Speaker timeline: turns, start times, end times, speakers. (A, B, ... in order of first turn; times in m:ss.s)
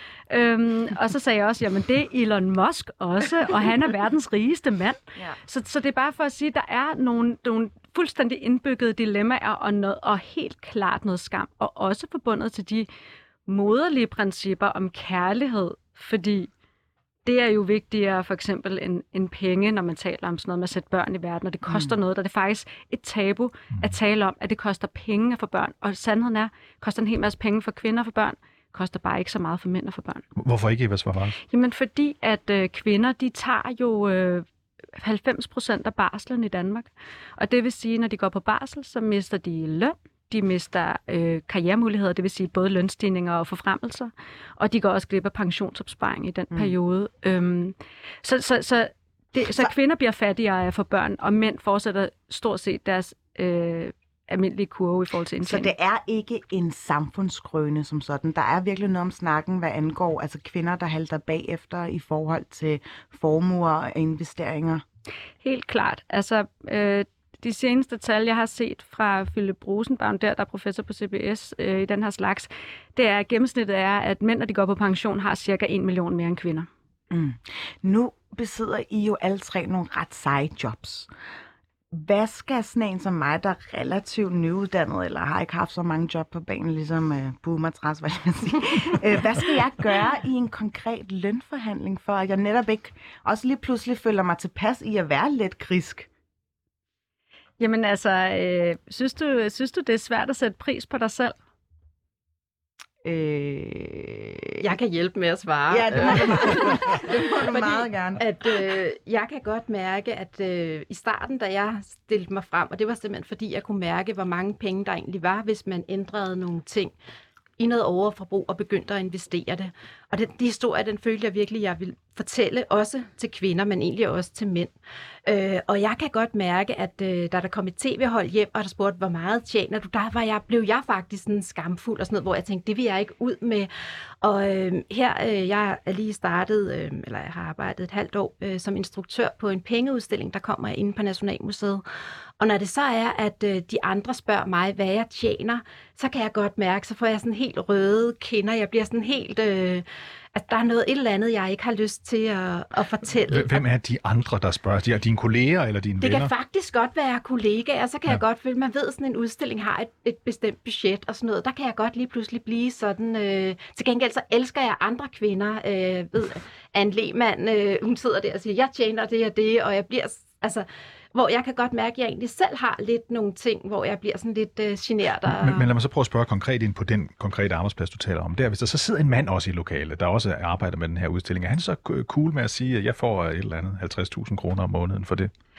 0:00.3-0:12.9 A
0:13.4-0:16.5 A
0:17.2-0:30.2 A
0:21.7-0:21.9 B
0:30.4-0:31.4 C
0:31.5-0:55.7 A
0:49.5-0:49.7 B
0:55.4-1:04.8 B
1:05.4-1:16.7 A
1:17.1-1:21.1 B
1:21.9-1:36.1 B
1:37.6-1:41.3 A
1:43.0-1:44.6 B
1:44.6-1:56.9 D
1:45.7-1:48.2 B
1:57.6-2:04.7 D
2:05.2-2:13.7 D
2:14.2-2:21.8 D
2:22.4-2:33.6 D
2:33.2-2:36.3 C
2:36.0-2:55.7 D
2:55.2-3:05.3 C